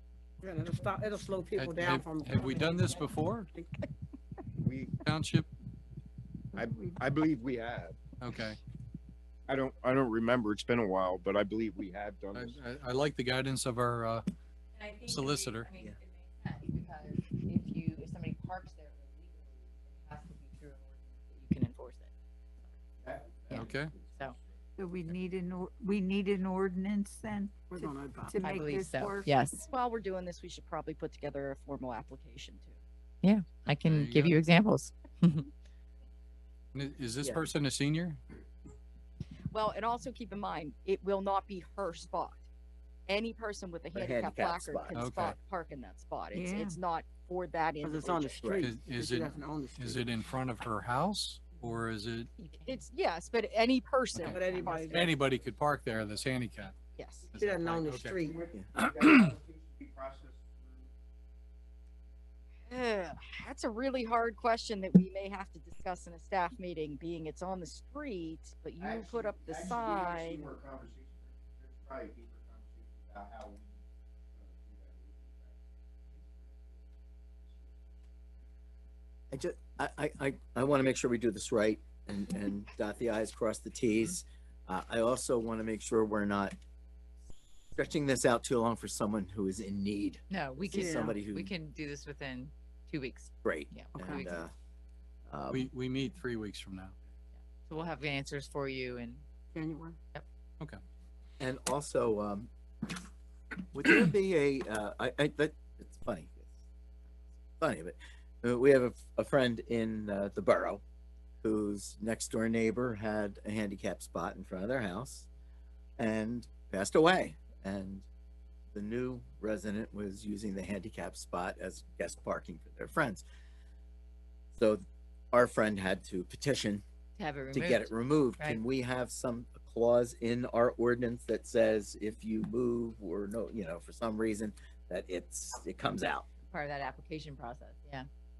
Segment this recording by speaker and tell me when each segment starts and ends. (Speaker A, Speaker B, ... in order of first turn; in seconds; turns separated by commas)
Speaker A: 0.4-3.0, Speaker B: 1.6-3.5, Speaker C: 4.6-5.0, Speaker B: 5.0-5.5, Speaker C: 6.5-8.0, Speaker B: 8.2-8.6, Speaker C: 9.5-12.6, Speaker B: 12.3-14.2, Speaker D: 14.8-22.1, Speaker B: 15.1-15.7, Speaker C: 23.0-24.4, Speaker D: 23.5-24.4, Speaker B: 23.5-23.9, Speaker E: 24.8-29.3, Speaker A: 27.7-28.4, Speaker D: 28.4-29.6, Speaker F: 29.6-32.8, Speaker D: 33.2-35.5, Speaker B: 33.8-34.4, Speaker B: 36.7-38.2, Speaker F: 39.5-42.4, Speaker F: 43.1-48.6, Speaker G: 43.9-45.0, Speaker B: 45.0-45.4, Speaker E: 46.3-46.8, Speaker A: 47.8-50.1, Speaker B: 48.6-52.3, Speaker D: 52.4-52.8, Speaker F: 52.7-55.1, Speaker A: 54.2-55.1, Speaker B: 54.9-56.8, Speaker F: 57.0-57.3, Speaker B: 57.3-58.2, Speaker A: 57.4-58.4, Speaker C: 58.2-60.9, Speaker F: 62.7-70.5, Speaker C: 68.8-73.8, Speaker C: 74.3-76.9, Speaker C: 77.4-77.8, Speaker G: 79.3-86.6, Speaker G: 87.8-91.5, Speaker D: 90.3-94.4, Speaker A: 90.7-91.2, Speaker G: 93.4-94.5, Speaker G: 95.3-95.7, Speaker B: 95.5-97.0, Speaker D: 97.5-99.2, Speaker A: 99.5-100.0, Speaker G: 101.4-102.5, Speaker G: 103.7-106.5, Speaker G: 107.6-110.8, Speaker G: 111.4-115.3, Speaker G: 116.0-118.1, Speaker G: 118.7-123.2, Speaker G: 124.5-126.8, Speaker D: 127.2-128.6, Speaker G: 127.5-136.3, Speaker D: 136.5-138.1